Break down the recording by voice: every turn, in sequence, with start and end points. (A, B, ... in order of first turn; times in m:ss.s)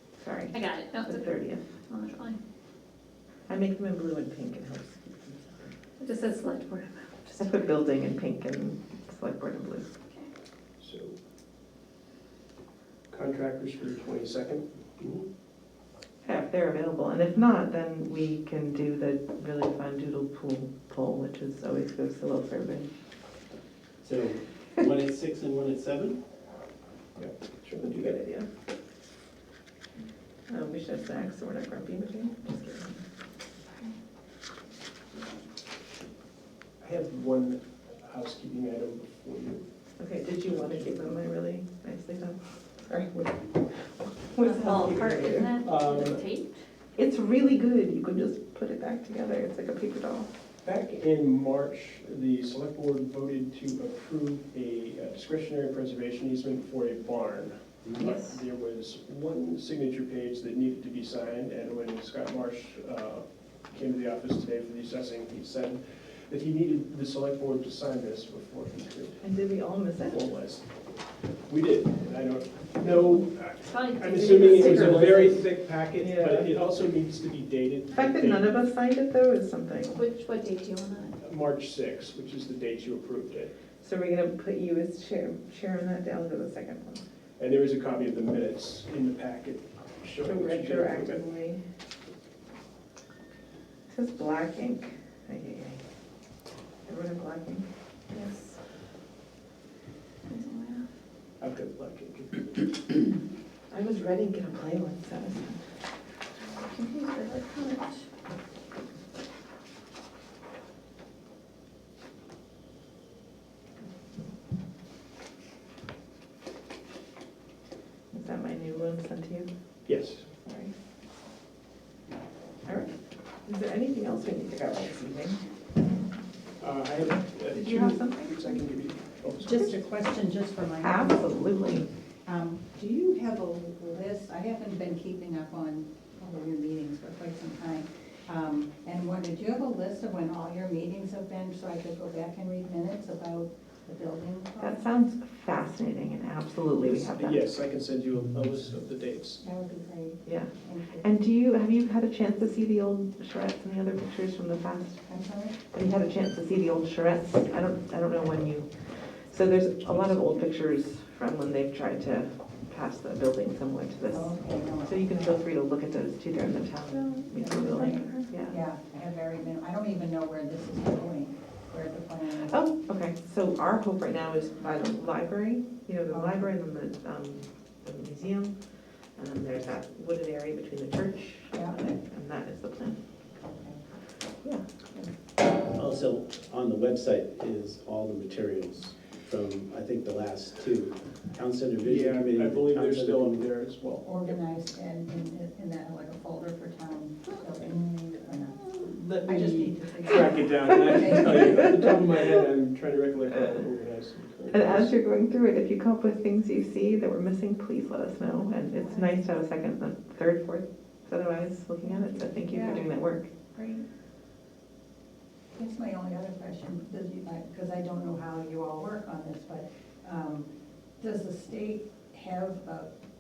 0:00.2-0:01.6 A
0:00.5-0:01.3 B
0:01.8-0:02.4 B
0:03.5-0:05.7 A
0:06.0-0:07.6 B
0:07.4-0:09.9 A
0:10.8-0:11.2 C
0:13.1-0:14.6 C
0:15.0-0:15.3 D
0:16.2-0:22.9 A
0:24.0-0:26.2 D
0:27.2-0:28.2 C
0:27.8-0:28.5 A
0:30.5-0:33.0 A
0:36.8-0:39.6 C
0:40.0-0:45.5 A
0:44.4-0:46.6 B
0:45.6-0:46.2 C
0:47.0-0:50.3 A
0:50.6-1:09.2 C
0:58.0-0:58.3 B
1:09.2-1:10.2 A
1:10.0-1:10.8 C
1:11.5-1:18.5 C
1:13.6-1:15.4 B
1:14.5-1:15.3 A
1:16.0-1:16.5 A
1:17.9-1:20.0 A
1:19.9-1:21.2 B
1:21.2-1:23.5 C
1:23.8-1:27.0 A
1:27.4-1:31.3 C
1:30.2-1:31.6 A
1:33.9-1:35.8 A
1:36.8-1:38.6 A
1:40.3-1:40.9 B
1:41.4-1:42.7 C
1:43.7-1:45.6 A
1:46.4-1:48.0 B
1:58.1-1:59.5 A
1:59.9-2:00.3 C
2:00.4-2:00.7 A
2:02.6-2:02.9 A
2:03.4-2:05.4 A
2:06.6-2:09.8 C
2:07.5-2:08.6 A
2:09.4-2:11.7 E
2:10.8-2:11.9 A
2:12.3-2:24.9 E
2:24.6-2:27.4 A
2:26.8-2:29.4 C
2:29.4-2:31.1 E
2:30.2-2:48.6 A
2:35.1-2:35.6 E
2:44.1-2:45.4 E
2:46.9-2:48.3 B
2:47.3-2:52.6 E
2:52.4-2:58.6 A
2:56.1-2:56.5 E
2:59.2-3:03.0 A
3:03.4-3:03.8 E
3:05.7-3:13.4 D
3:11.8-3:14.4 C
3:14.0-3:22.0 E
3:18.6-3:24.9 C
3:24.5-3:33.3 A
3:31.8-3:33.9 E
3:35.5-3:42.9 E